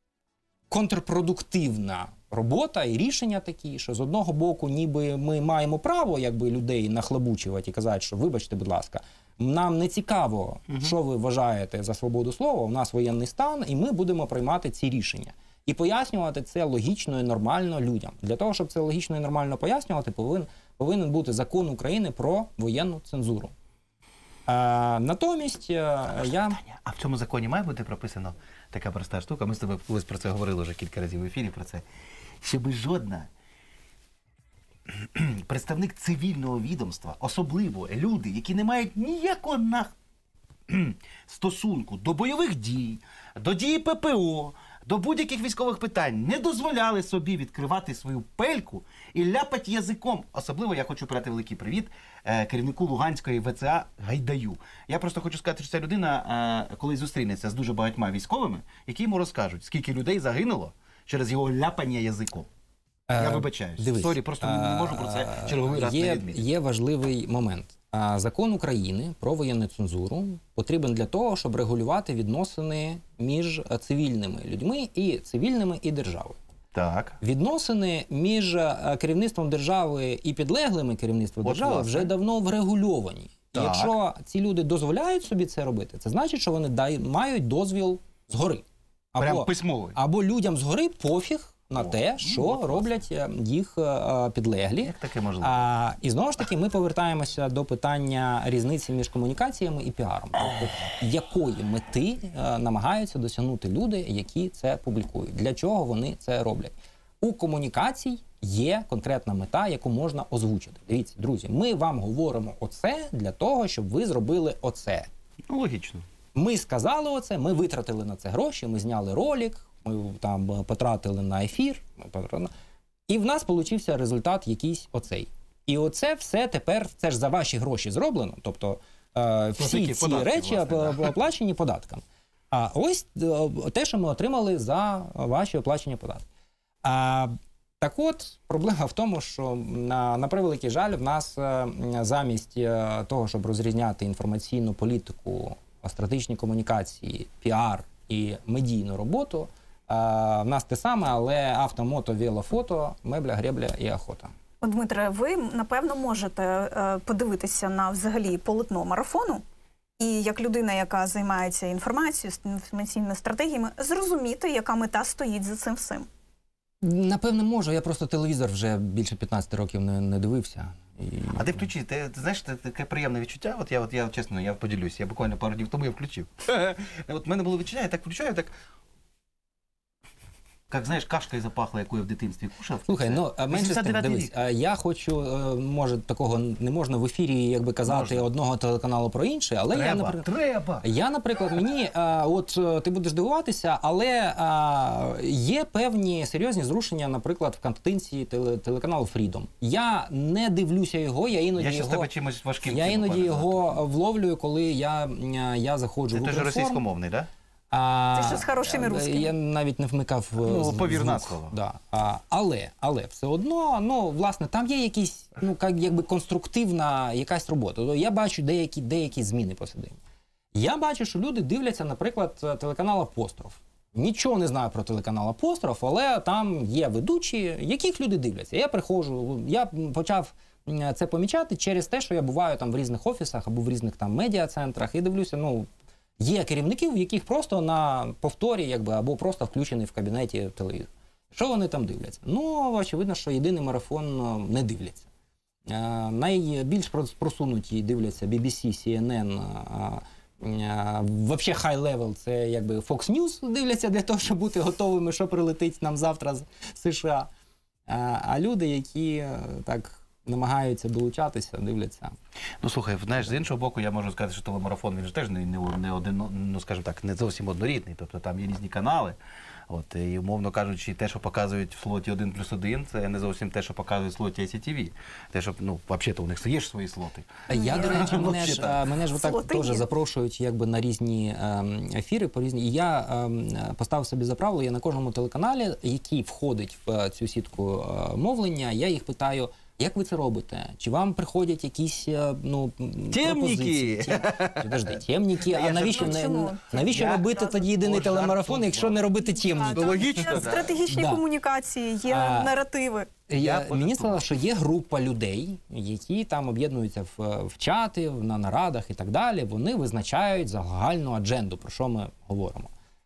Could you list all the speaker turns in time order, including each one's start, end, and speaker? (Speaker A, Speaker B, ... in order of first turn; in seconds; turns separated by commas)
Speaker A: 0.7-23.5, Speaker A: 24.5-26.6, Speaker B: 26.3-31.9, Speaker B: 32.4-33.3, Speaker B: 34.9-39.9, Speaker B: 40.7-62.5, Speaker A: 63.1-76.4, Speaker B: 63.2-66.4, Speaker B: 76.7-77.2, Speaker A: 77.2-115.1, Speaker B: 81.4-82.1, Speaker B: 83.5-83.9, Speaker B: 89.2-90.0, Speaker B: 91.8-92.9, Speaker B: 94.8-95.7, Speaker B: 115.5-116.0, Speaker A: 116.3-122.5, Speaker A: 123.1-136.3, Speaker B: 129.6-131.2, Speaker A: 136.8-154.3, Speaker C: 154.6-159.4, Speaker C: 160.0-166.1, Speaker A: 166.8-171.6, Speaker B: 171.3-178.5, Speaker B: 180.7-184.4, Speaker A: 182.9-190.3, Speaker B: 187.8-188.3, Speaker B: 189.7-190.8, Speaker A: 190.8-202.1, Speaker B: 201.6-203.7, Speaker A: 202.7-206.8, Speaker B: 206.1-207.3, Speaker A: 207.7-220.0, Speaker C: 208.1-209.3, Speaker B: 210.4-211.6, Speaker A: 220.5-235.7, Speaker A: 236.2-245.1, Speaker A: 245.7-257.3, Speaker A: 257.9-262.2, Speaker B: 262.6-269.2, Speaker B: 269.7-278.8, Speaker A: 277.5-301.2, Speaker C: 277.5-278.3, Speaker C: 279.1-279.9, Speaker B: 293.1-299.0, Speaker C: 295.9-296.8, Speaker C: 299.5-303.1, Speaker B: 299.7-300.8, Speaker A: 302.1-302.6, Speaker A: 303.3-312.7, Speaker B: 303.4-304.2